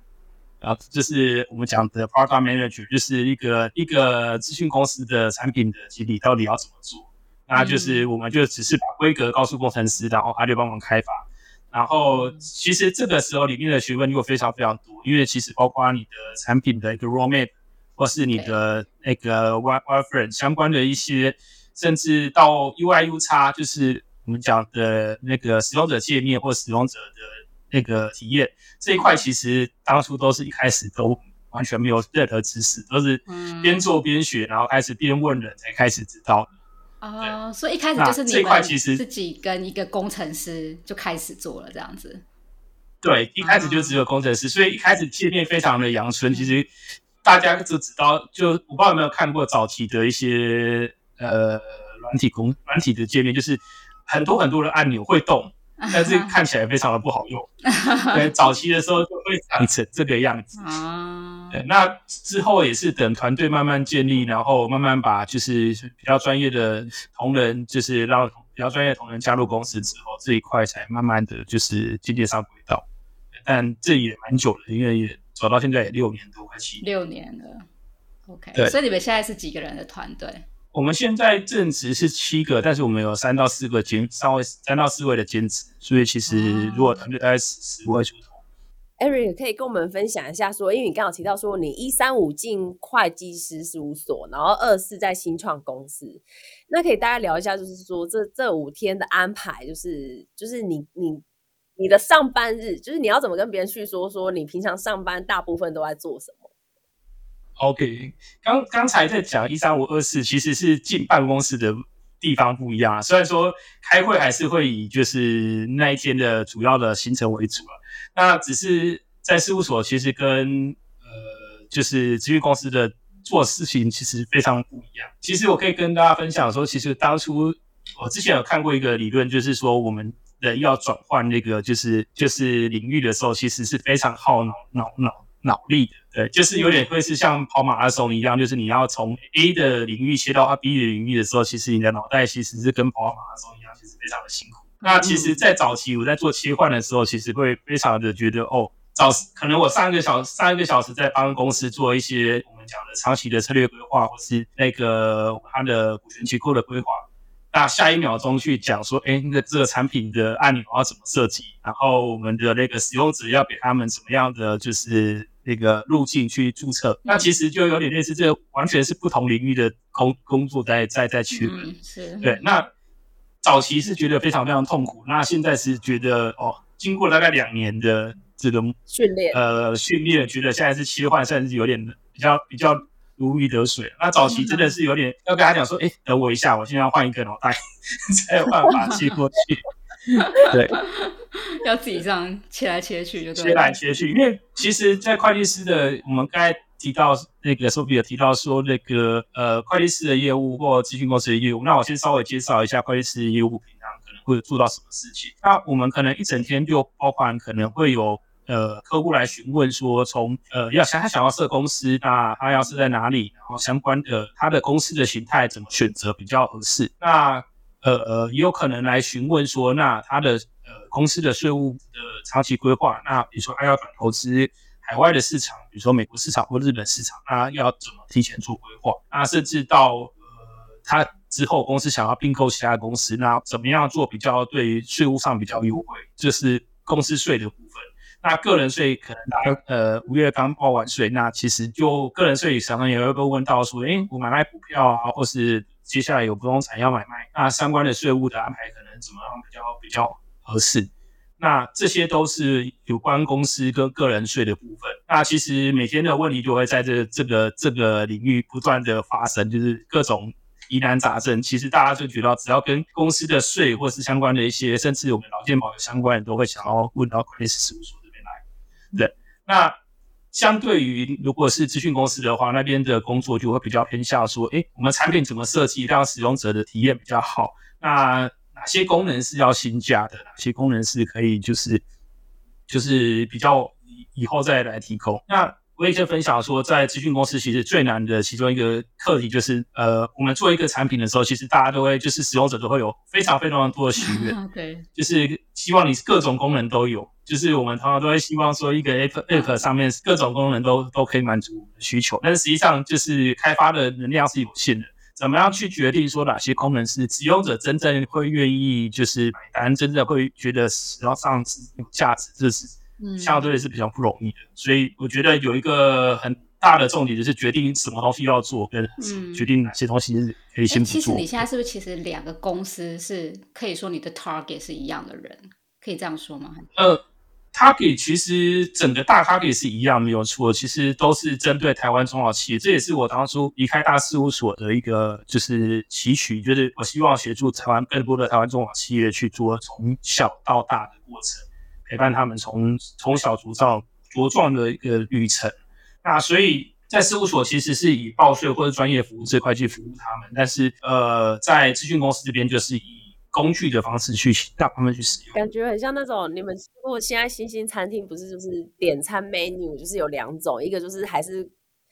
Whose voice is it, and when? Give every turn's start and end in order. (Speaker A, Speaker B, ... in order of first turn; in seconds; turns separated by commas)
Speaker A: 0.6-36.5, Speaker B: 7.5-8.1, Speaker B: 12.1-12.4, Speaker B: 33.3-33.9, Speaker B: 37.0-42.2, Speaker A: 38.0-39.0, Speaker A: 43.0-46.7, Speaker B: 43.4-44.0, Speaker A: 47.2-57.5, Speaker B: 55.8-56.4, Speaker B: 57.7-58.2, Speaker A: 58.1-60.5, Speaker B: 60.5-61.6, Speaker A: 61.5-72.8, Speaker A: 73.5-76.8, Speaker B: 76.8-77.7, Speaker B: 78.3-80.4, Speaker A: 80.7-88.3, Speaker B: 86.3-87.0, Speaker C: 89.0-101.2, Speaker C: 101.8-106.5, Speaker A: 107.6-171.7, Speaker B: 136.5-136.8, Speaker B: 144.8-145.4, Speaker B: 171.3-172.4, Speaker A: 172.2-172.7, Speaker A: 173.4-178.7, Speaker C: 178.9-179.4, Speaker A: 179.3-187.6, Speaker B: 184.2-184.7, Speaker A: 188.1-189.6, Speaker B: 188.7-189.1, Speaker B: 190.1-193.8, Speaker A: 190.4-190.8, Speaker A: 193.3-230.2, Speaker A: 230.8-268.4, Speaker A: 268.9-269.8, Speaker A: 270.3-281.8, Speaker A: 282.7-294.3, Speaker B: 294.0-294.9, Speaker A: 294.9-321.4, Speaker B: 299.3-299.6, Speaker B: 313.0-313.5, Speaker B: 319.0-319.5, Speaker B: 320.7-326.7, Speaker A: 326.8-327.0, Speaker A: 327.5-355.3, Speaker C: 355.3-361.5